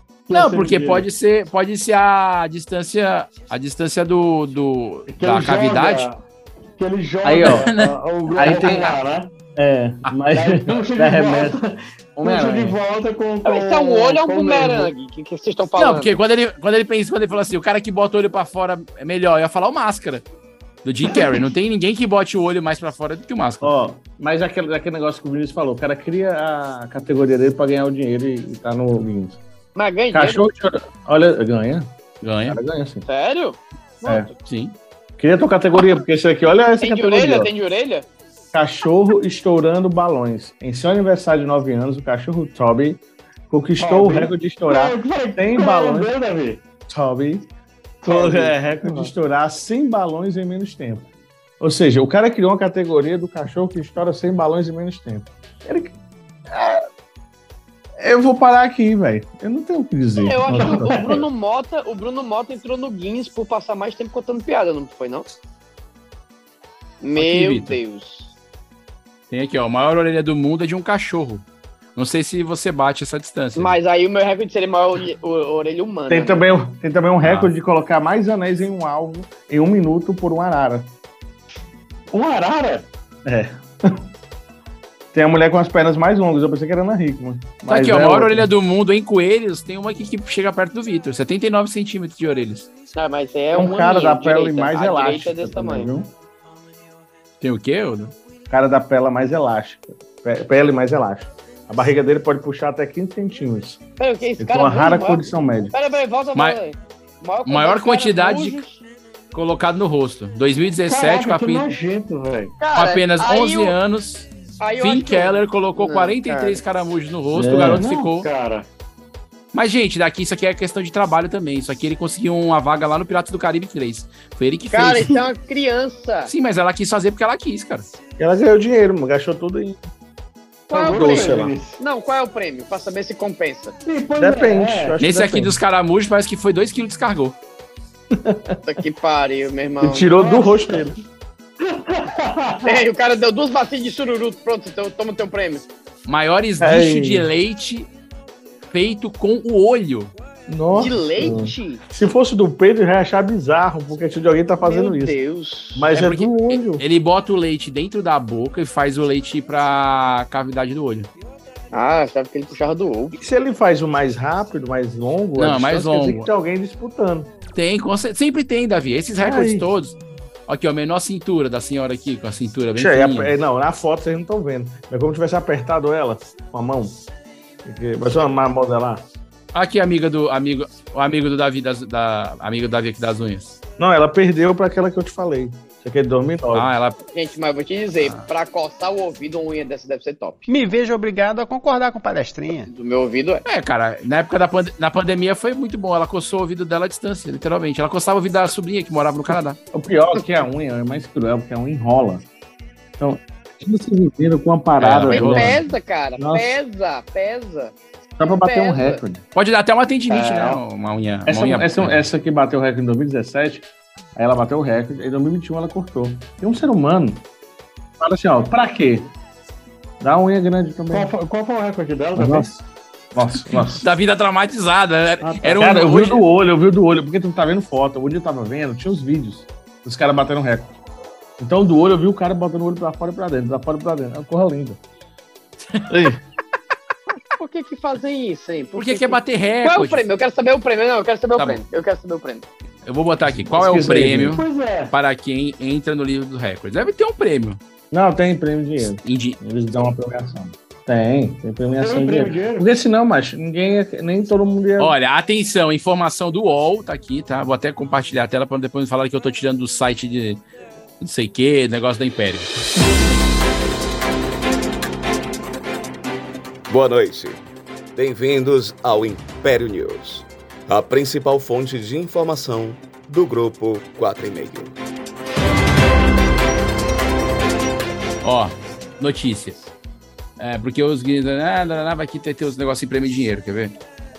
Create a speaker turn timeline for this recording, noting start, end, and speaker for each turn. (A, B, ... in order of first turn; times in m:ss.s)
0:00.3-0:01.0 A
0:00.3-0:06.1 B
0:05.1-0:06.2 A
0:06.8-0:09.3 A
0:07.2-0:07.7 C
0:07.4-0:07.9 B
0:08.3-0:09.0 C
0:09.5-0:11.6 C
0:10.3-0:14.9 A
0:12.2-0:12.8 C
0:13.4-0:16.1 D
0:15.8-0:20.2 B
0:20.8-0:23.7 B
0:23.6-0:29.4 C
0:29.7-0:30.4 D
0:30.1-0:31.9 C
0:32.2-0:32.6 B
0:32.4-0:33.0 C
0:33.0-0:34.3 D
0:34.4-0:34.7 B
0:35.2-0:37.5 C
0:36.8-0:38.0 D
0:38.5-0:46.1 C
0:43.8-0:46.6 A
0:46.9-0:47.5 C
0:48.0-0:49.1 A
0:48.0-0:51.1 C
0:51.6-0:55.9 C
0:56.5-0:56.8 C
0:58.0-1:01.2 C
1:00.2-1:05.3 D
1:00.6-1:01.0 A
1:07.0-1:08.3 D
1:07.2-1:07.8 B
1:09.3-1:11.4 B
1:12.0-1:13.8 B
1:13.6-1:16.4 D
1:16.1-1:20.9 C
1:17.2-1:17.5 B
1:22.1-1:22.8 A
1:23.2-1:24.0 C
1:25.1-1:28.5 C
1:27.7-1:32.7 B
1:32.9-1:35.9 D
1:33.5-1:36.1 C
1:37.4-1:38.1 B
1:38.5-1:43.8 C
1:44.0-1:48.8 D
1:44.4-1:45.7 C
1:47.4-1:48.6 B
1:49.3-1:51.8 B
1:50.9-1:52.5 A
1:52.6-1:53.7 D
1:52.7-1:54.3 B
1:54.6-1:56.6 D
1:54.8-1:58.3 B
1:57.3-1:57.8 C
1:57.7-1:58.6 A
1:59.5-2:05.2 B
2:04.7-2:06.3 D
2:06.3-2:07.9 B
2:08.2-2:09.8 C
2:10.7-2:11.8 A
2:10.7-2:13.8 D
2:10.8-2:11.6 C
2:13.8-2:14.9 A
2:14.2-2:15.6 C
2:15.0-2:17.4 B
2:18.1-2:18.6 C
2:18.6-2:20.1 D
2:19.8-2:20.9 C
2:20.2-2:20.9 A
2:21.6-2:22.7 A
2:22.6-2:25.6 D
2:26.0-2:27.9 B
2:26.6-2:27.3 C
2:28.7-2:30.1 B
2:30.5-2:35.2 C
2:30.7-2:31.8 D
2:34.6-2:35.9 D
2:35.7-2:36.8 C
2:35.9-2:41.1 B
2:41.7-2:43.2 D
2:43.1-2:47.3 C
2:45.4-2:46.3 B
2:47.5-2:50.0 B
2:49.2-2:49.7 C
2:50.5-2:53.3 B
2:52.8-2:57.0 C
2:57.6-2:59.0 C
2:59.5-3:03.6 B
3:03.8-3:06.7 C
3:06.5-3:07.0 B
3:07.1-3:10.4 D
3:08.0-3:08.3 B
3:10.5-3:12.7 E
3:12.7-3:13.4 D
3:13.4-3:19.6 B
3:19.7-3:22.2 C
3:23.0-3:25.6 C
3:24.8-3:25.6 B
3:25.1-3:27.7 D
3:26.2-3:26.6 C
3:28.2-3:29.2 C
3:28.3-3:29.0 D
3:29.3-3:32.0 B
3:30.1-3:30.6 A
3:31.2-3:37.2 C
3:38.0-3:39.1 C
3:40.0-3:41.1 C
3:40.9-3:42.5 A
3:42.2-3:42.6 C
3:43.1-3:43.8 C
3:43.5-3:46.2 B
3:45.2-3:45.6 A
3:45.6-3:50.8 C
3:51.4-3:54.8 C
3:55.9-3:56.2 C
3:57.4-4:02.4 D
3:58.8-4:00.0 B
4:02.8-4:07.6 B
4:03.4-4:04.4 C
4:04.3-4:04.9 A
4:07.9-4:14.9 C
4:09.0-4:09.4 B
4:11.8-4:12.7 A
4:14.8-4:20.4 B
4:21.0-4:22.5 B
4:26.7-4:27.4 F
4:28.0-4:34.7 F
4:38.2-4:39.7 B
4:40.4-4:43.7 B